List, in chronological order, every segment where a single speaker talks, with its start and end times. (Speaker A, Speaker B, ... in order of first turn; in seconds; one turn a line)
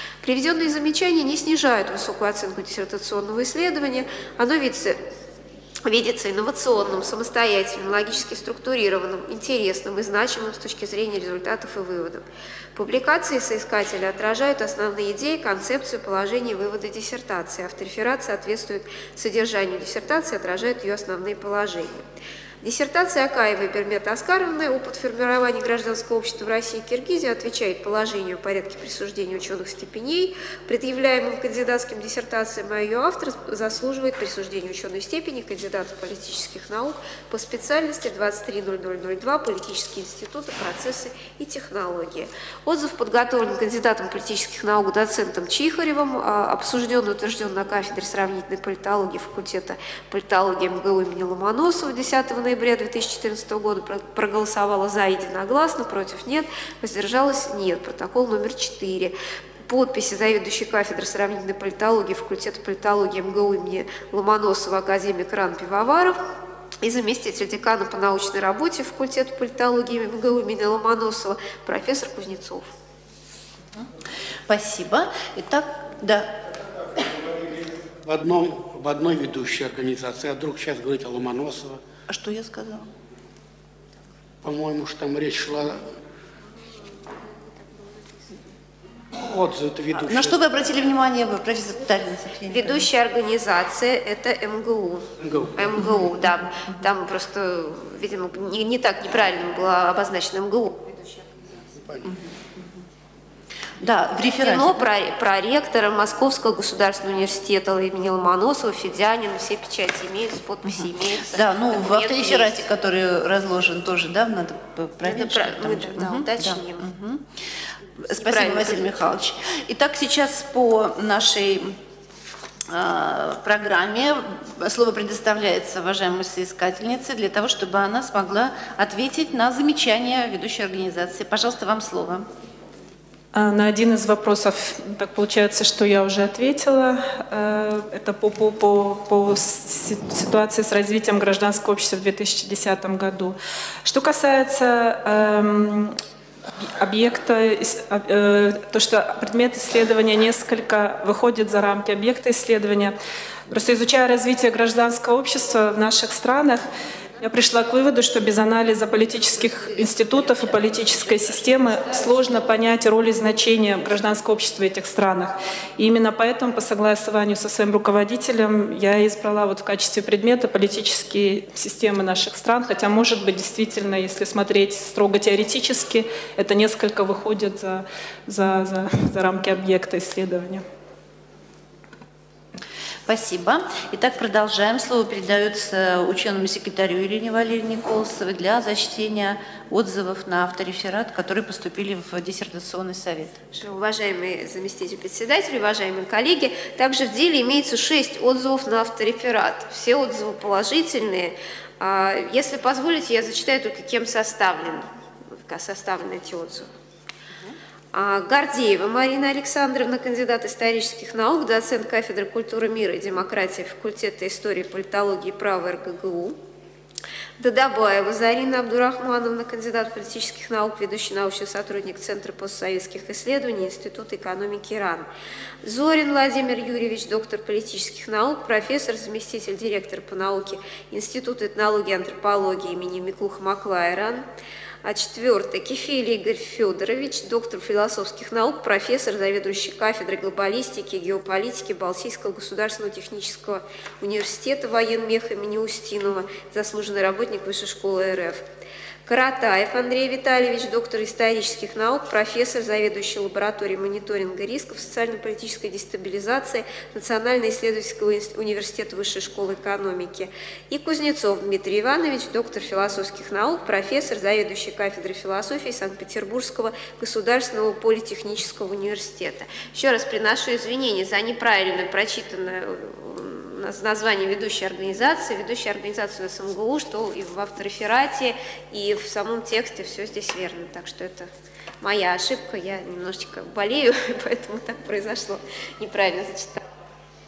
Speaker A: 0.2-5.0
Speaker A: 5.8-12.2
Speaker A: 12.8-22.1
Speaker A: 22.6-59.1
Speaker A: 59.7-66.2
Speaker A: 66.8-72.7
Speaker B: 74.5-76.4
Speaker C: 78.0-81.8
Speaker B: 82.1-82.9
Speaker C: 84.4-85.9
Speaker C: 89.2-90.4
Speaker B: 89.9-92.9
Speaker A: 92.5-101.6
Speaker C: 95.2-95.8
Speaker C: 101.7-102.1
Speaker B: 102.0-102.8
Speaker B: 103.8-104.9
Speaker A: 104.4-112.6
Speaker B: 110.7-117.3
Speaker A: 115.0-116.9
Speaker B: 118.0-121.8
Speaker A: 118.1-118.9
Speaker B: 122.7-132.3
Speaker D: 133.3-146.0
Speaker D: 146.6-152.9
Speaker D: 153.5-156.6
Speaker D: 157.2-180.6
Speaker B: 183.1-193.4
Speaker A: 193.5-206.7
Speaker A: 207.9-216.4
Speaker A: 217.4-225.1
Speaker A: 225.6-234.2
Speaker A: 234.8-248.4
Speaker A: 249.1-281.3
Speaker A: 281.8-286.6